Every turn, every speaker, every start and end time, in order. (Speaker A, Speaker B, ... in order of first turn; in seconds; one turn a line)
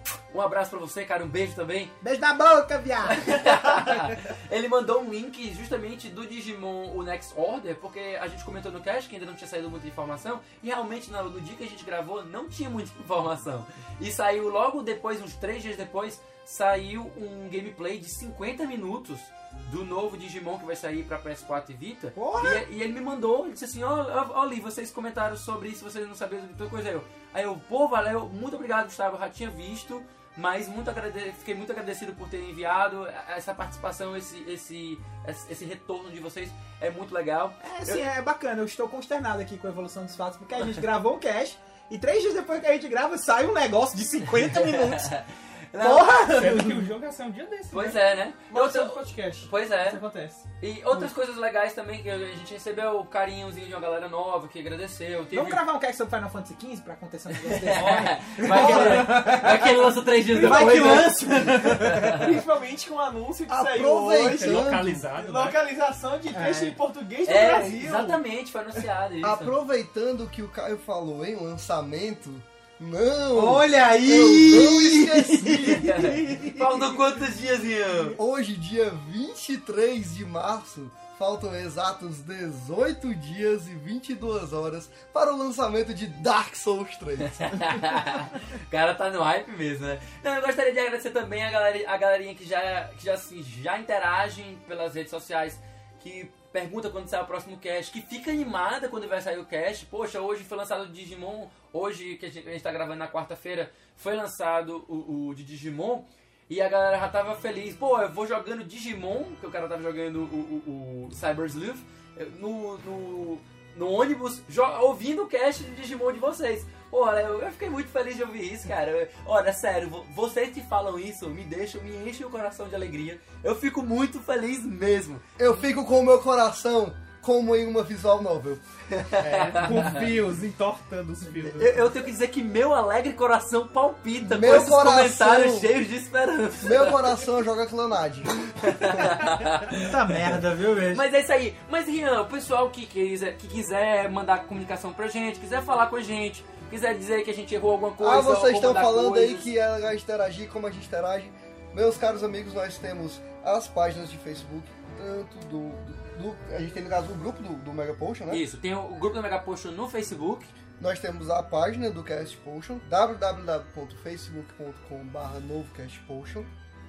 Speaker A: 0.3-1.9
Speaker B: 2.0-3.9
Speaker A: 3.1-38.0
Speaker B: 22.1-22.6
Speaker B: 37.6-45.1
Speaker A: 44.4-46.1
Speaker B: 45.8-46.9
Speaker C: 46.2-48.0
Speaker A: 47.7-50.0
Speaker D: 48.5-51.1
Speaker A: 50.6-55.6
Speaker B: 55.3-59.5
Speaker A: 57.3-62.3
Speaker C: 57.8-59.5
Speaker D: 58.6-59.7
Speaker D: 60.3-61.2
Speaker B: 60.4-62.0
Speaker D: 62.1-68.2
Speaker E: 63.5-65.1
Speaker C: 64.2-65.6
Speaker B: 66.3-66.8
Speaker A: 67.2-69.5
Speaker E: 69.2-76.0
Speaker B: 73.3-76.8
Speaker A: 75.6-78.2
Speaker E: 78.2-87.4
Speaker A: 87.2-125.5
Speaker E: 125.4-128.6
Speaker A: 128.9-130.1
Speaker C: 129.2-131.8
Speaker A: 131.6-137.2
Speaker E: 134.2-135.7
Speaker E: 136.6-138.5
Speaker A: 138.6-140.3
Speaker B: 139.7-141.0
Speaker A: 140.9-149.5
Speaker E: 148.0-158.5
Speaker A: 158.3-160.5
Speaker E: 160.8-166.5